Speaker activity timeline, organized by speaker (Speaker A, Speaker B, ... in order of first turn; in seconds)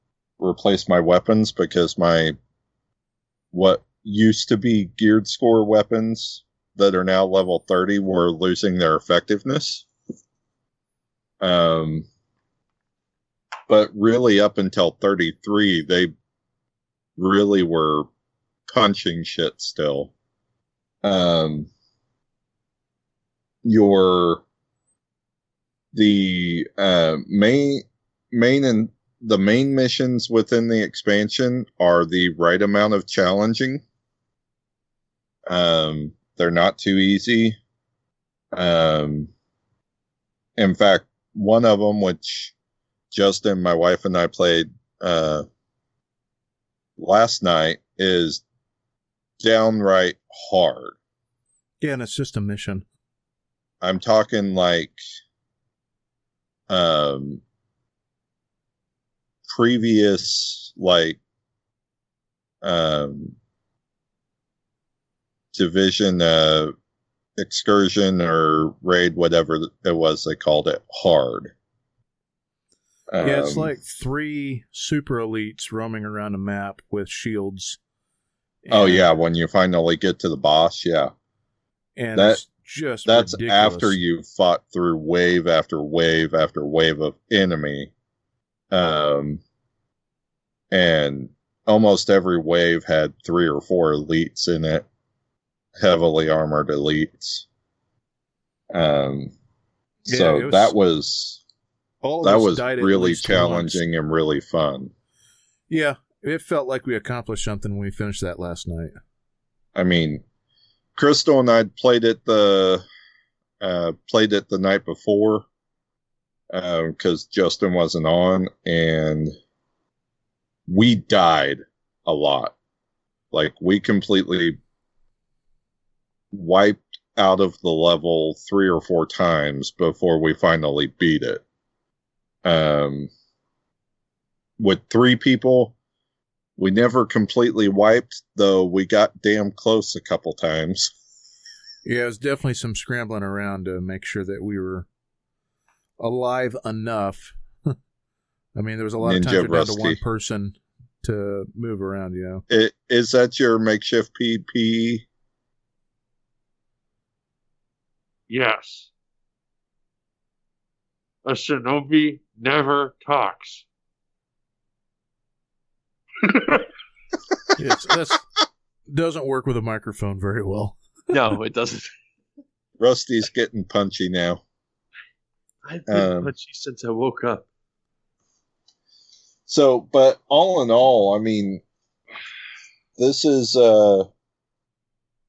Speaker A: 0.4-2.4, 3.5-9.8, 11.4-12.1, 13.7-16.1, 17.2-18.1, 18.7-20.1, 21.0-21.7, 23.6-24.4, 25.9-33.8, 35.5-37.6, 38.5-39.3, 40.6-42.5, 43.1-45.4, 47.0-48.4, 49.4-51.0, 53.8-55.0, 56.7-57.4, 59.5-61.2, 62.6-63.3, 65.5-66.7, 67.4-71.5, 73.1-73.7, 78.7-81.1, 82.1-82.4, 83.0-87.9, 88.7-89.4, 90.7-94.8, 95.8-97.4, 98.7-99.3, 100.1-101.4, 102.2-104.9, 109.7-110.2, 110.9-112.8, 113.6-115.5, 116.5-119.3, 120.7-122.5, 123.3-124.6, 126.3-131.4, 132.4-133.1, 134.6-135.7, 136.6-140.9, 149.0-150.0, 152.5-155.0, 172.8-174.4, 175.9-176.3, 179.5-181.6, 183.0-184.1
Speaker B: 51.8-52.8, 73.2-77.8, 78.6-79.0, 82.0-84.0, 100.1-100.7, 102.0-103.8, 105.7-108.9, 141.8-144.9, 146.0-147.8, 148.5-152.4, 167.6-168.2, 168.9-170.8
Speaker C: 158.3-158.9, 161.2-163.6, 166.2-166.7, 171.1-171.9, 175.6-177.4